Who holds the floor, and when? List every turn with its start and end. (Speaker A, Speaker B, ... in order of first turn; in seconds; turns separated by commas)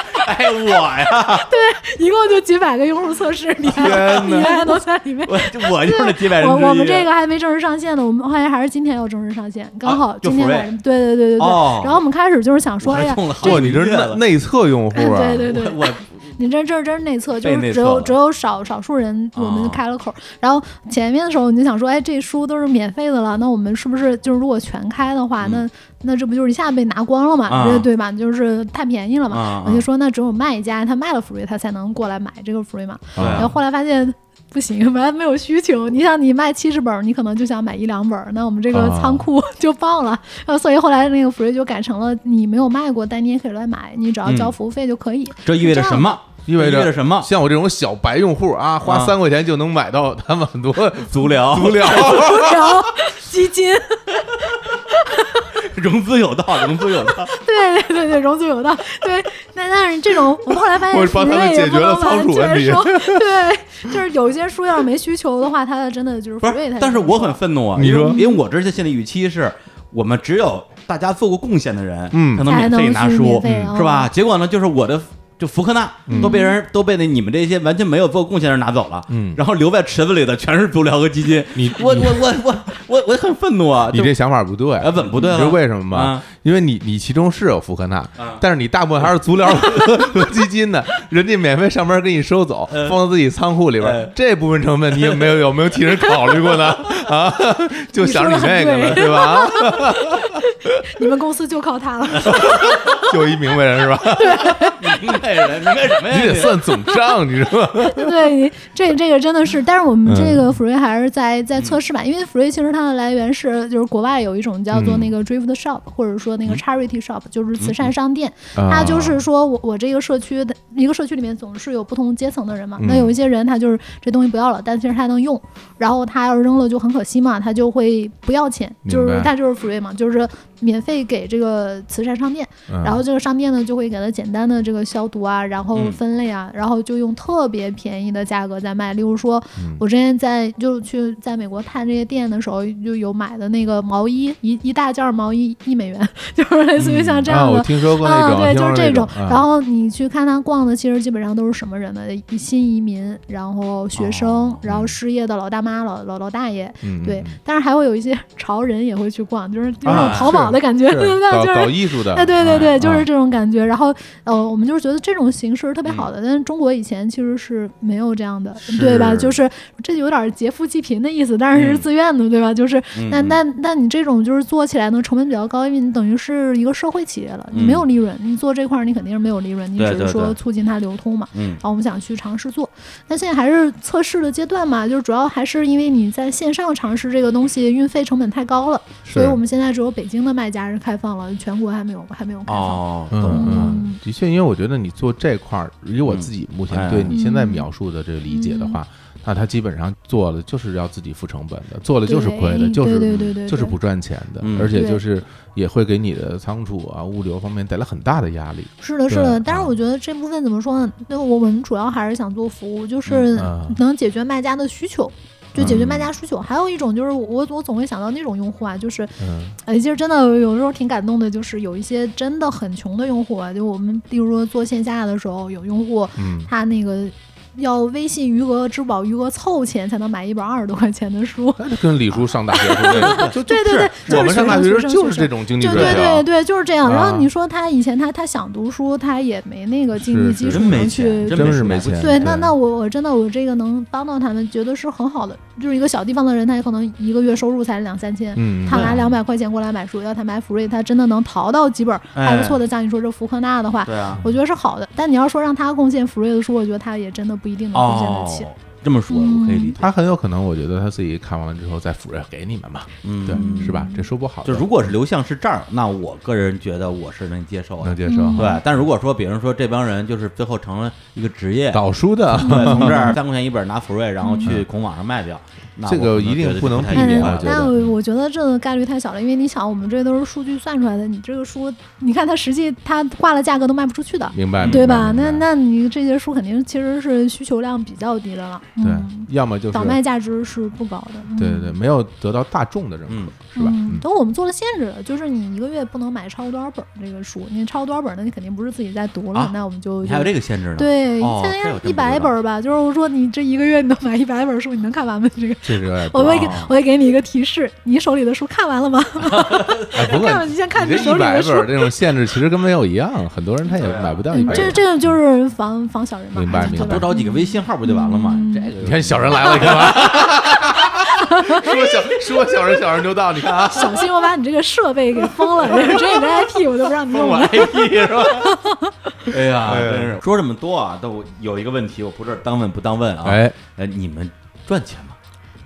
Speaker A: 0.1-1.5, Speaker B: 1.5-13.7, Speaker C: 3.7-4.6, Speaker A: 3.7-4.6, Speaker A: 5.2-7.1, Speaker A: 9.8-10.7, Speaker A: 11.4-12.0, Speaker A: 12.8-14.2, Speaker C: 13.4-15.5, Speaker B: 14.9-46.2, Speaker A: 15.5-16.2, Speaker A: 17.4-18.1, Speaker A: 19.4-19.8, Speaker A: 27.5-27.9, Speaker A: 29.3-29.9, Speaker C: 33.1-33.5, Speaker A: 33.2-33.5, Speaker C: 38.7-39.2, Speaker A: 44.2-44.5, Speaker A: 45.4-47.3, Speaker C: 46.5-52.7, Speaker A: 48.8-49.1, Speaker A: 51.1-52.6, Speaker B: 51.9-55.5, Speaker A: 55.5-57.3, Speaker B: 57.3-68.4, Speaker C: 60.7-63.3, Speaker A: 66.4-84.2, Speaker C: 67.7-68.2, Speaker C: 72.1-72.5, Speaker B: 72.4-74.1, Speaker C: 73.4-73.7, Speaker C: 76.1-76.4, Speaker B: 76.1-76.6, Speaker C: 79.1-79.4, Speaker C: 81.5-82.3, Speaker C: 83.9-101.1, Speaker A: 84.8-86.3, Speaker A: 88.2-88.4, Speaker A: 89.5-90.1, Speaker A: 92.7-93.0, Speaker A: 93.8-94.1, Speaker A: 95.0-95.4, Speaker A: 96.0-96.8, Speaker B: 98.0-103.1, Speaker A: 102.2-103.0, Speaker C: 102.2-104.6, Speaker B: 104.1-105.4, Speaker A: 104.4-106.7, Speaker C: 106.0-108.3, Speaker B: 106.8-107.1, Speaker B: 107.8-194.0, Speaker C: 110.0-110.5, Speaker C: 114.7-115.1, Speaker C: 118.5-119.2, Speaker C: 122.8-123.1, Speaker C: 128.8-129.3, Speaker C: 132.7-133.0, Speaker C: 139.6-139.8, Speaker A: 146.8-147.3, Speaker C: 147.3-149.4, Speaker A: 154.0-154.8, Speaker C: 154.7-154.9, Speaker C: 156.8-157.4, Speaker A: 159.8-160.4, Speaker C: 159.8-163.1, Speaker A: 162.4-162.8, Speaker A: 168.6-169.3, Speaker A: 171.5-171.8, Speaker A: 172.9-173.4, Speaker A: 177.5-177.8, Speaker A: 179.8-180.4, Speaker A: 181.3-181.6, Speaker C: 189.1-189.4, Speaker A: 192.5-193.8, Speaker C: 193.1-209.7, Speaker A: 196.1-197.1, Speaker B: 197.1-197.7, Speaker B: 198.3-198.8, Speaker B: 202.1-203.8, Speaker A: 204.4-204.7, Speaker B: 204.7-205.0, Speaker B: 208.8-258.5, Speaker C: 213.3-213.8, Speaker C: 215.6-215.9, Speaker A: 215.6-216.0, Speaker C: 219.2-219.6, Speaker C: 226.2-226.5, Speaker C: 231.6-236.3, Speaker A: 232.9-234.6, Speaker A: 235.7-236.1, Speaker C: 236.8-237.3, Speaker C: 239.9-242.5, Speaker A: 240.5-242.4, Speaker C: 248.3-249.0, Speaker A: 248.7-249.1, Speaker A: 252.1-252.6, Speaker A: 253.8-254.2, Speaker A: 257.7-259.9, Speaker B: 259.1-259.7, Speaker C: 259.8-264.9, Speaker A: 263.0-263.8, Speaker B: 263.3-264.0, Speaker A: 264.4-277.7, Speaker C: 267.8-268.6, Speaker B: 268.1-268.6, Speaker C: 271.7-273.2, Speaker B: 272.4-273.1, Speaker B: 274.2-274.5, Speaker C: 275.9-277.9, Speaker B: 276.9-291.7, Speaker C: 284.3-285.4, Speaker A: 284.6-284.8, Speaker C: 288.8-290.0, Speaker C: 291.4-294.0, Speaker A: 293.1-293.3, Speaker B: 293.5-311.9, Speaker A: 299.3-302.3, Speaker C: 305.6-306.5, Speaker A: 306.3-306.7, Speaker A: 309.2-310.1, Speaker C: 309.9-315.1, Speaker A: 313.7-314.8, Speaker B: 314.3-318.7, Speaker C: 316.3-317.1, Speaker A: 316.5-320.5, Speaker C: 318.8-324.2, Speaker B: 319.4-320.1, Speaker B: 320.9-322.0, Speaker B: 323.7-329.0, Speaker A: 327.1-328.5, Speaker A: 329.3-335.1, Speaker C: 329.5-330.2, Speaker C: 333.2-333.6